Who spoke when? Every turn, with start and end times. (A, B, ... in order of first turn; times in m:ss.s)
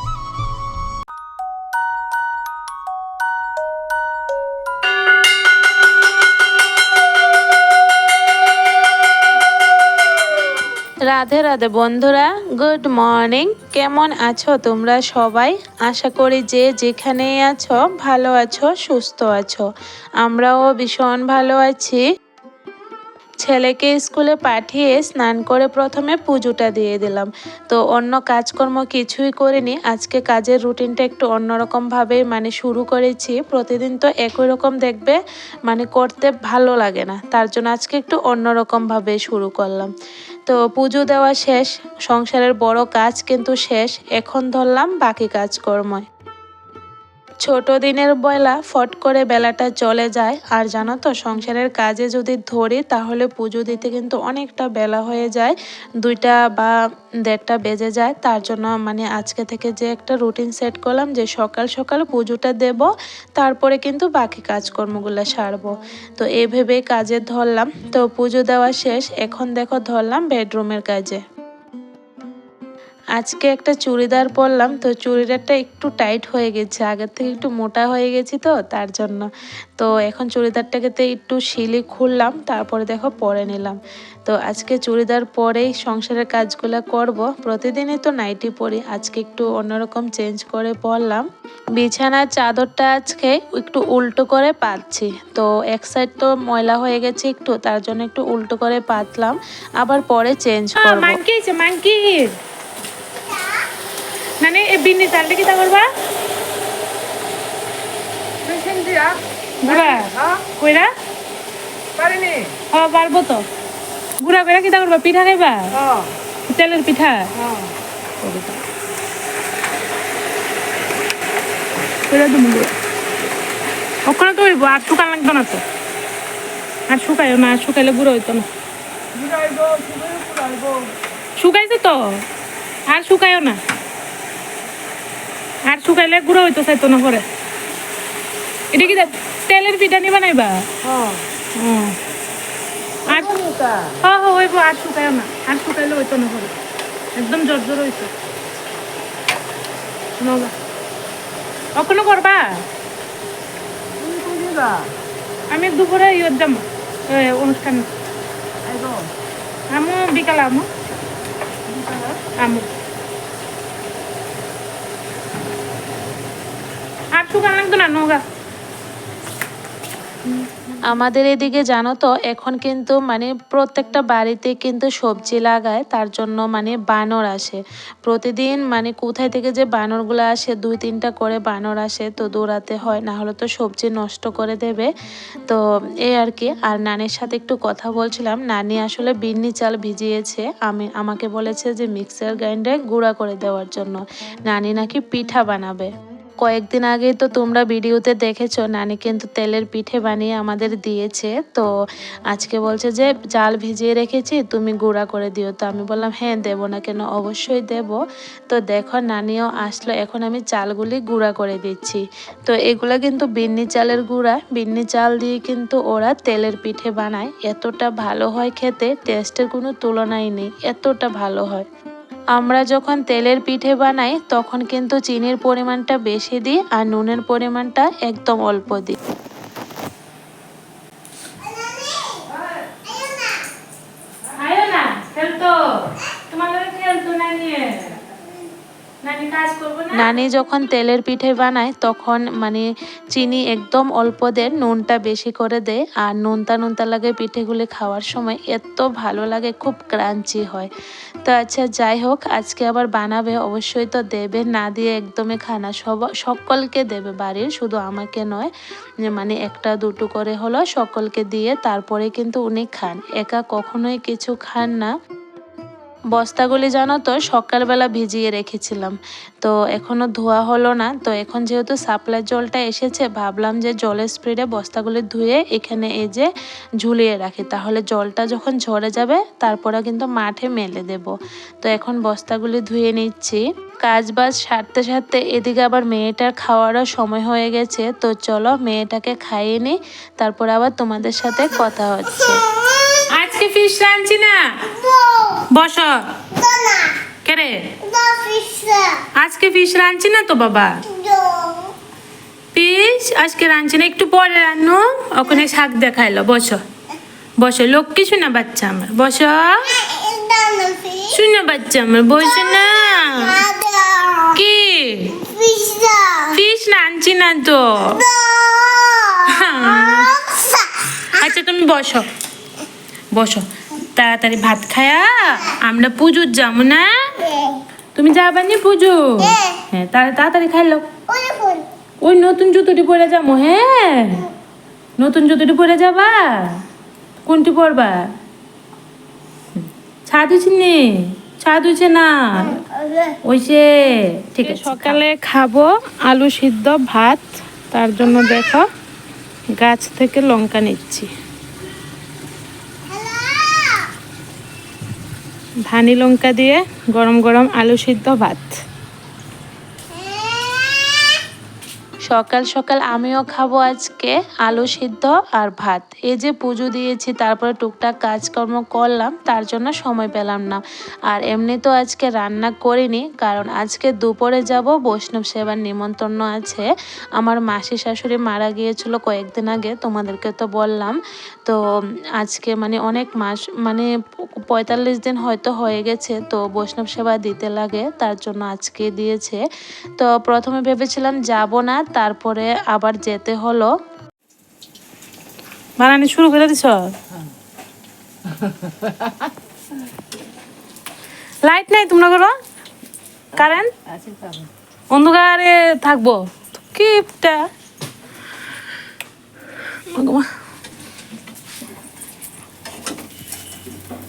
0:11.1-0:19.7 A
0:20.2-0:22.0 A
0:23.4-0:39.9 A
0:40.5-0:46.0 A
0:47.4-0:56.7 A
0:57.3-1:11.2 A
1:13.2-1:19.3 A
1:19.8-1:31.2 A
1:31.8-1:41.2 A
1:40.8-1:42.3 B
1:44.4-1:45.9 B
1:48.5-1:49.2 C
1:49.6-1:50.9 B
1:52.0-1:52.5 C
1:52.7-1:53.5 B
1:54.2-1:55.8 B
1:56.5-1:57.3 B
1:58.2-1:58.6 B
2:02.1-2:02.7 B
2:04.1-2:05.6 B
2:06.9-2:08.5 B
2:09.3-2:10.8 C
2:10.4-2:10.7 B
2:11.4-2:12.2 B
2:12.9-2:13.6 B
2:15.7-2:17.3 B
2:18.7-2:20.7 B
2:20.9-2:21.2 C
2:21.6-2:22.0 B
2:23.1-2:26.5 B
2:23.7-2:23.9 C
2:27.2-2:28.1 B
2:30.2-2:30.5 B
2:31.8-2:32.6 B
2:34.0-2:34.9 C
2:35.5-2:37.9 B
2:38.7-2:39.1 C
2:39.7-2:40.7 B
2:41.8-2:42.2 C
2:42.4-2:42.7 B
2:47.2-2:48.2 B
2:50.9-3:04.9 A
3:05.5-3:15.9 A
3:16.4-3:21.7 A
3:22.3-3:28.0 A
3:28.5-3:41.7 A
3:42.4-3:49.0 A
3:54.3-3:58.0 B
3:59.0-4:00.2 B
3:59.9-4:10.7 A
4:11.2-4:18.5 A
4:19.1-4:24.9 A
4:26.1-4:36.3 A
4:36.8-4:52.4 A
4:53.1-4:54.8 B
4:55.0-4:55.4 C
4:55.4-4:56.3 B
4:56.4-4:57.0 C
4:57.2-4:57.8 B
4:57.9-4:59.0 C
4:59.2-5:00.9 B
5:01.0-5:01.7 C
5:02.5-5:06.6 B
5:07.4-5:09.9 B
5:09.9-5:11.1 C
5:11.1-5:13.5 B
5:13.5-5:14.3 C
5:14.2-5:15.3 B
5:15.3-5:16.3 C
5:16.2-5:18.1 B
5:18.3-5:19.2 C
5:19.2-5:22.1 B
5:23.1-5:27.3 B
5:28.0-5:30.9 B
5:31.1-5:31.7 C
5:32.0-5:34.3 B
5:35.0-5:36.6 B
5:37.2-5:38.1 B
5:39.6-5:42.6 B
5:43.2-5:48.7 B
5:44.4-5:45.0 A
5:49.5-5:51.1 B
5:53.0-5:53.9 C
5:55.7-5:58.5 B
6:00.2-6:00.7 C
6:02.1-6:21.6 A
6:22.2-6:23.9 A
6:24.4-6:29.4 A
6:30.0-6:33.7 A
6:35.8-6:36.9 B
6:41.4-6:42.3 B
6:43.4-6:43.7 B
6:44.1-6:44.4 C
6:44.9-6:47.4 B
6:49.9-6:50.3 B